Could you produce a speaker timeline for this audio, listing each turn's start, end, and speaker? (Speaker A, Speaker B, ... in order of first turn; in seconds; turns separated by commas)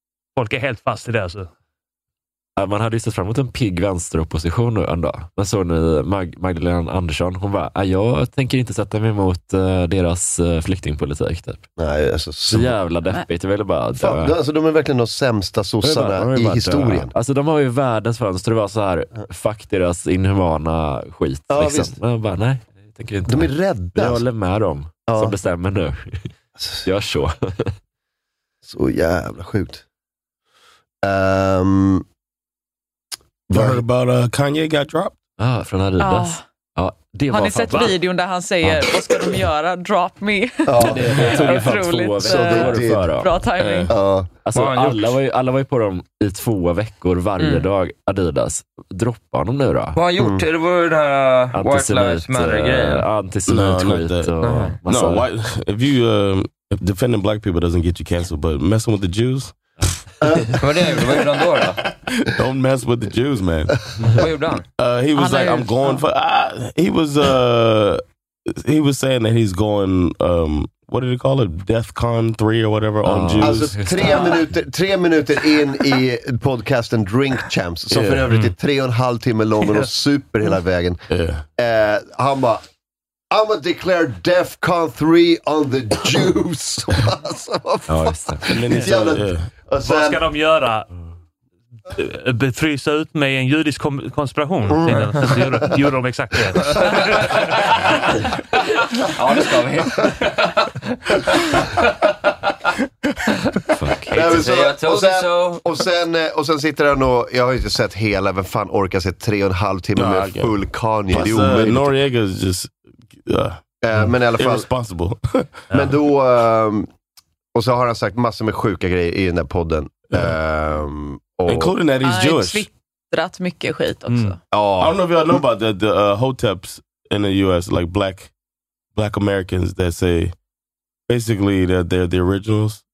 Speaker A: 0.3-1.5, Speaker B: 2.6-11.7, Speaker C: 11.8-12.7, Speaker B: 12.5-14.3, Speaker C: 14.0-17.1, Speaker B: 15.8-26.3, Speaker C: 21.5-22.0, Speaker C: 23.3-24.2, Speaker C: 25.1-25.3, Speaker C: 26.6-26.9, Speaker B: 26.8-27.7, Speaker C: 28.6-29.8, Speaker C: 31.0-32.0, Speaker C: 33.5-33.8, Speaker D: 33.5-35.2, Speaker B: 35.4-37.9, Speaker E: 36.0-36.4, Speaker E: 37.3-43.9, Speaker A: 37.7-38.0, Speaker B: 38.6-38.9, Speaker C: 40.6-41.2, Speaker B: 40.8-43.4, Speaker C: 42.2-43.1, Speaker D: 43.5-44.0, Speaker C: 43.9-44.3, Speaker B: 44.4-50.0, Speaker F: 44.5-45.2, Speaker E: 47.4-47.7, Speaker F: 49.9-53.1, Speaker C: 50.2-50.4, Speaker B: 51.5-55.3, Speaker D: 53.5-59.5, Speaker F: 54.4-54.8, Speaker C: 60.2-60.5, Speaker F: 60.6-61.8, Speaker D: 62.1-63.8, Speaker F: 64.2-64.6, Speaker D: 64.8-73.8, Speaker E: 65.1-66.0, Speaker B: 73.0-74.5, Speaker C: 73.4-81.0, Speaker E: 74.0-74.4, Speaker D: 77.9-78.2, Speaker A: 78.3-78.5, Speaker D: 81.1-81.4, Speaker C: 81.6-82.6, Speaker C: 83.3-90.3, Speaker B: 87.9-88.4, Speaker D: 88.5-89.5, Speaker A: 89.8-90.8, Speaker A: 91.9-97.7, Speaker C: 94.7-95.7, Speaker F: 99.0-101.7, Speaker B: 103.7-104.4, Speaker F: 104.1-105.6, Speaker C: 104.1-111.9, Speaker D: 110.0-110.5, Speaker D: 111.1-113.6, Speaker C: 113.8-114.7, Speaker D: 114.3-115.6, Speaker A: 115.7-116.0, Speaker C: 115.7-116.9, Speaker C: 117.5-121.7, Speaker D: 121.5-122.7, Speaker E: 122.0-124.4, Speaker A: 124.1-124.3, Speaker C: 124.5-125.4, Speaker D: 124.8-128.3, Speaker D: 128.9-130.3, Speaker D: 131.1-132.8